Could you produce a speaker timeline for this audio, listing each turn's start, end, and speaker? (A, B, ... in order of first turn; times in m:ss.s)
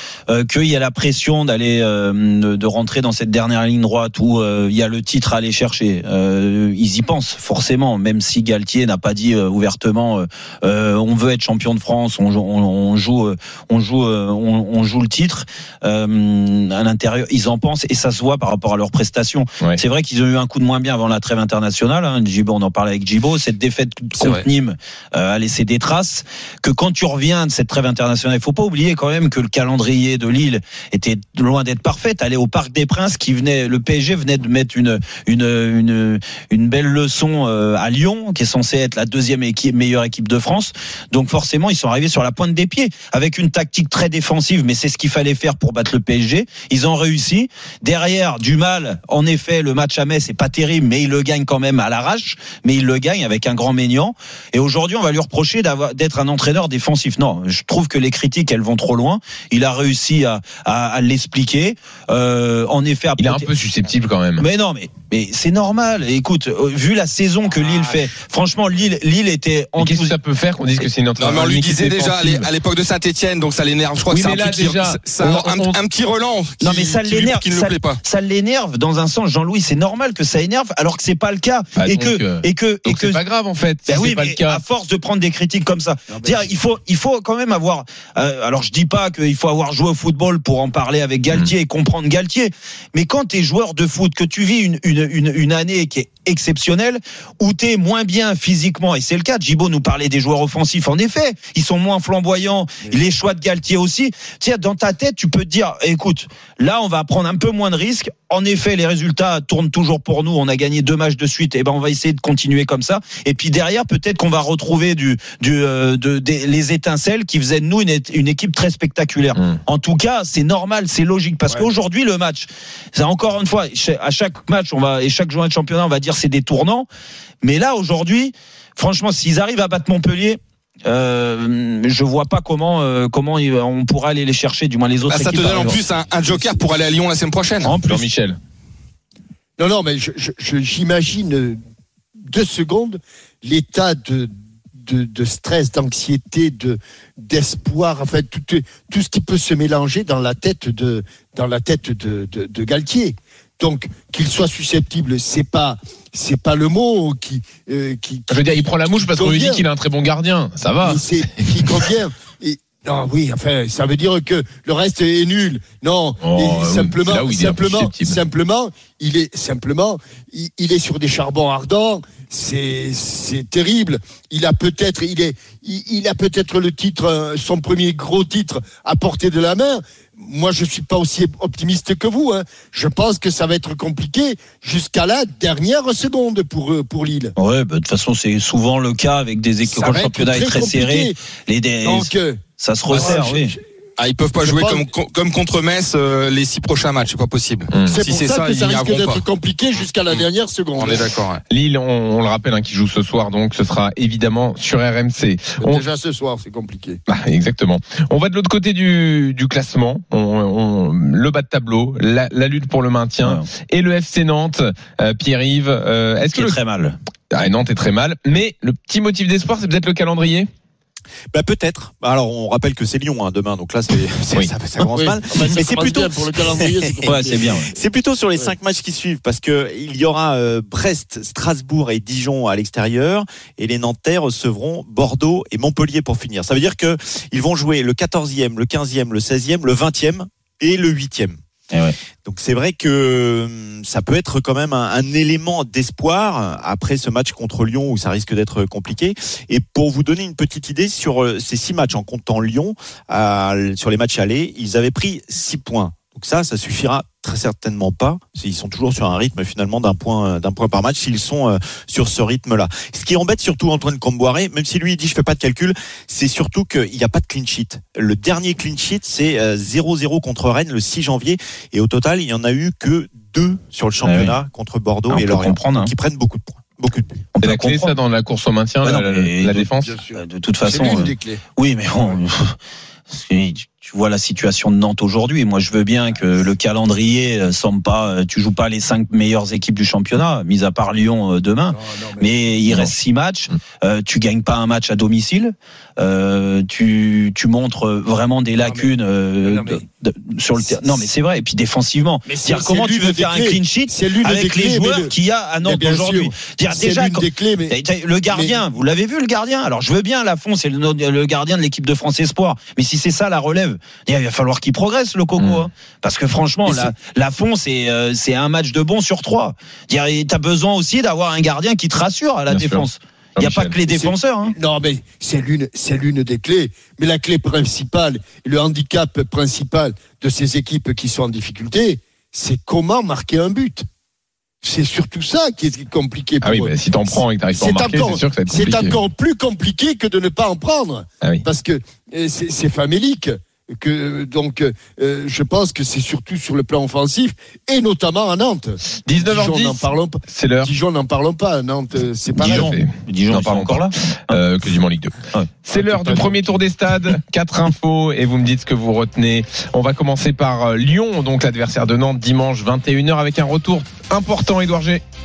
0:00.3-1:03.5 A
0:24.2-0:24.4 B
1:03.2-1:04.4 B
1:04.4-1:10.2 A
1:09.8-1:12.5 B
1:11.2-1:18.0 C
1:14.1-1:15.8 B
1:16.6-1:23.2 A
1:21.8-1:24.6 B
1:23.8-2:06.9 A
2:07.4-2:15.8 A
2:15.1-2:17.7 C
2:17.6-2:18.0 A
2:17.8-2:18.4 B
2:19.6-2:21.6 D
2:22.2-2:39.6 D
2:38.3-2:41.5 B
2:40.8-3:07.3 D
2:46.2-2:48.2 B
3:07.4-3:13.6 A
3:09.6-3:11.2 D
3:11.8-3:12.4 D
3:12.9-3:13.6 D
3:14.0-3:19.2 C
3:14.4-3:14.8 D
3:17.9-3:21.0 D
3:20.8-3:21.4 C
3:21.5-3:25.8 B
3:25.6-3:27.0 D
3:27.1-3:36.6 B
3:36.3-3:37.0 A
3:37.3-3:40.5 B
3:41.3-4:01.4 E
3:44.8-3:47.5 D
3:47.0-3:47.7 A
4:02.2-4:37.3 E
4:34.0-4:34.4 A
4:35.1-4:35.9 A
4:37.3-4:38.0 A
4:37.4-4:40.0 B
4:38.8-4:42.6 A
4:39.8-4:41.4 D
4:43.1-5:24.5 A
4:51.7-4:52.3 D
4:58.6-4:58.9 D
4:59.4-4:59.8 D
5:00.6-5:00.9 D
5:02.3-5:07.8 D
5:08.3-5:08.6 D
5:15.4-5:15.6 B
5:22.5-5:22.8 B
5:23.4-5:23.8 B
5:23.9-5:33.8 D
5:34.6-5:52.7 D
5:36.4-5:39.0 B
5:49.0-5:50.7 B
5:52.4-5:54.4 A
5:52.4-6:05.0 B
5:55.7-5:56.5 D